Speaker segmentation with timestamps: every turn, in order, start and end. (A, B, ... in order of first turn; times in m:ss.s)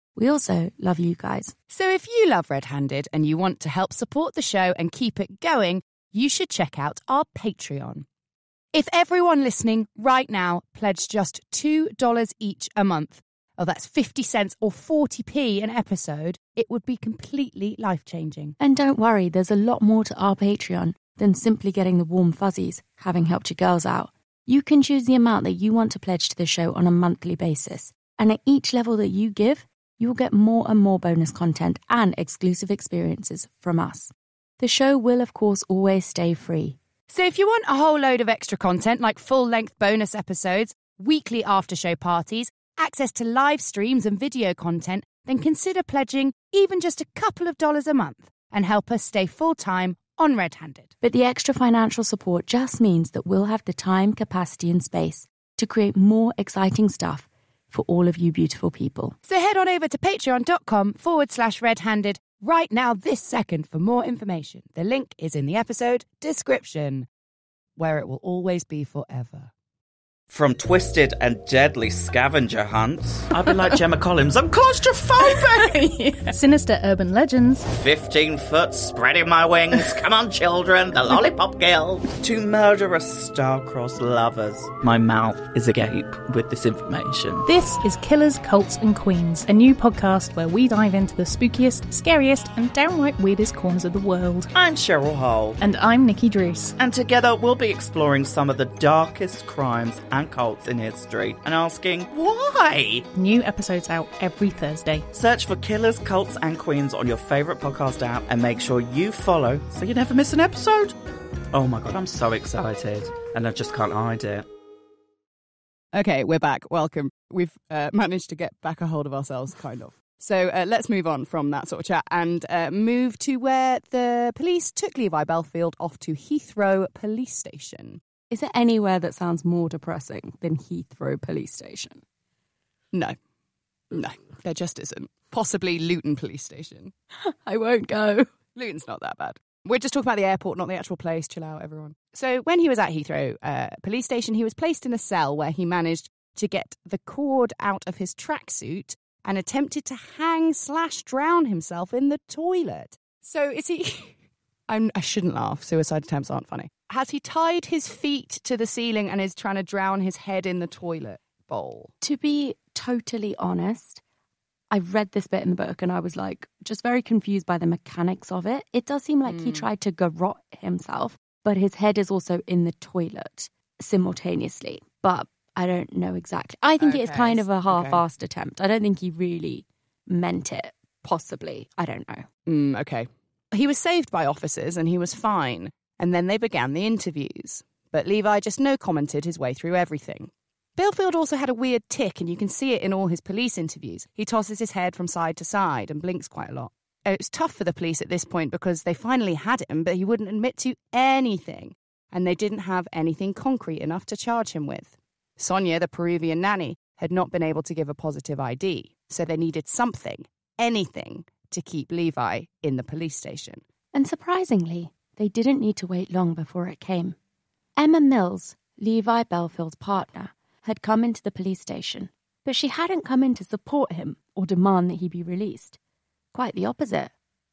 0:00.2-0:01.5 A
0:01.7-0:08.1 B
0:08.7-0:18.6 B
0:18.6-0:36.8 A
0:37.1-0:50.9 B
0:51.0-0:59.2 A
0:59.2-1:07.1 B
1:07.8-1:09.5 B
1:10.3-1:15.8 C
1:15.2-1:17.7 D
1:17.7-1:27.5 C
1:27.4-1:34.5 D
1:34.5-1:35.6 C
1:35.6-1:36.8 D
1:36.8-1:43.1 C
1:43.1-1:45.1 D
1:45.1-1:51.0 C
1:51.5-1:54.5 C
1:55.9-2:08.0 B
2:08.3-2:12.0 A
2:13.9-2:16.9 B
2:17.2-2:18.3 A
2:18.6-2:34.2 B
2:34.7-2:41.9 B
2:42.0-2:44.0 A
2:44.7-3:02.2 A
2:49.3-2:49.6 B
2:56.8-2:58.0 B
3:02.5-3:33.6 B
3:33.9-3:37.2 A
3:37.8-3:45.8 A
3:46.3-3:47.1 A